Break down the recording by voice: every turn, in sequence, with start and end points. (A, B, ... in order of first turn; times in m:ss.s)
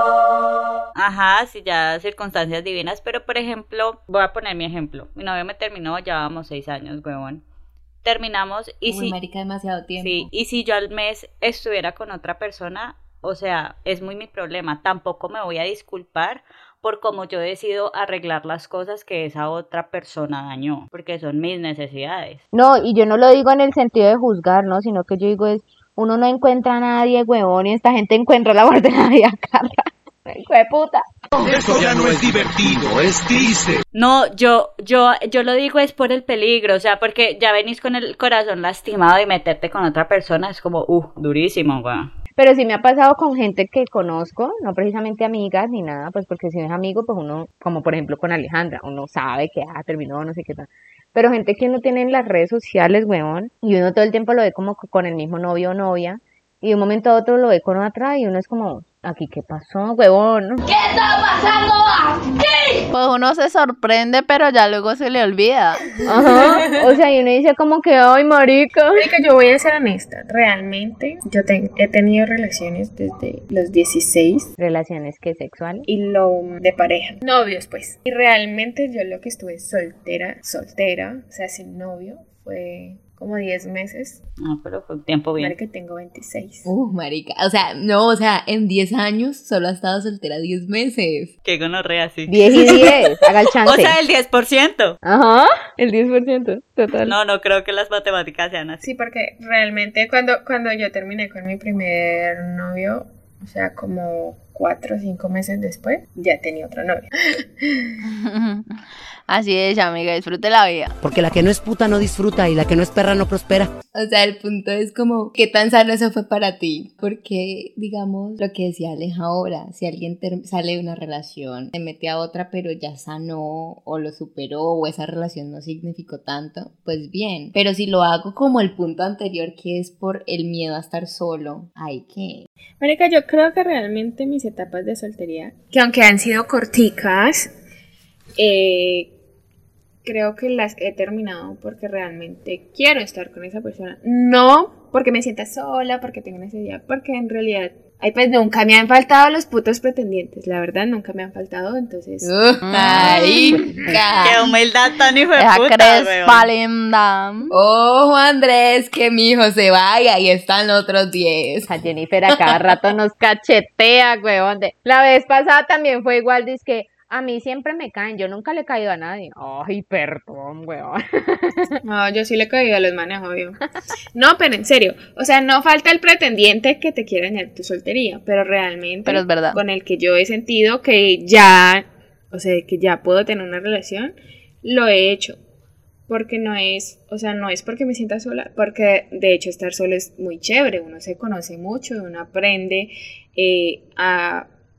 0:01.0-0:07.4 A
0:08.0-0:09.2 A
0:08.9-0:10.3 B
0:10.0-0:22.4 A
0:22.5-0:31.0 C
0:31.4-0:33.8 D
0:33.9-0:42.1 A
0:42.4-1:00.6 C
1:00.7-1:02.8 E
1:02.9-1:06.0 F
1:06.1-1:09.0 C
1:09.0-1:14.5 G
1:14.6-1:15.9 C
1:15.9-1:24.2 G
1:24.4-1:25.6 A
1:25.4-1:26.7 G
1:26.6-1:31.3 B
1:31.4-1:33.0 A
1:32.3-1:34.0 C
1:33.6-1:35.0 A
1:35.0-1:37.2 C
1:37.1-1:38.9 A
1:38.8-1:47.9 G
1:48.0-1:48.8 F
1:49.3-1:51.0 F
1:51.0-1:53.7 H
1:53.9-2:12.4 B
2:12.8-2:17.5 G
2:18.4-2:19.1 G
2:20.0-2:32.3 G
2:32.2-2:34.5 B
2:32.6-2:33.7 F
2:34.2-2:36.5 A
2:35.4-2:37.5 F
2:37.5-2:41.7 B
2:41.7-2:51.8 C
2:51.8-2:53.6 G
2:54.1-3:05.4 G
2:59.1-2:59.6 F
3:06.1-3:14.5 G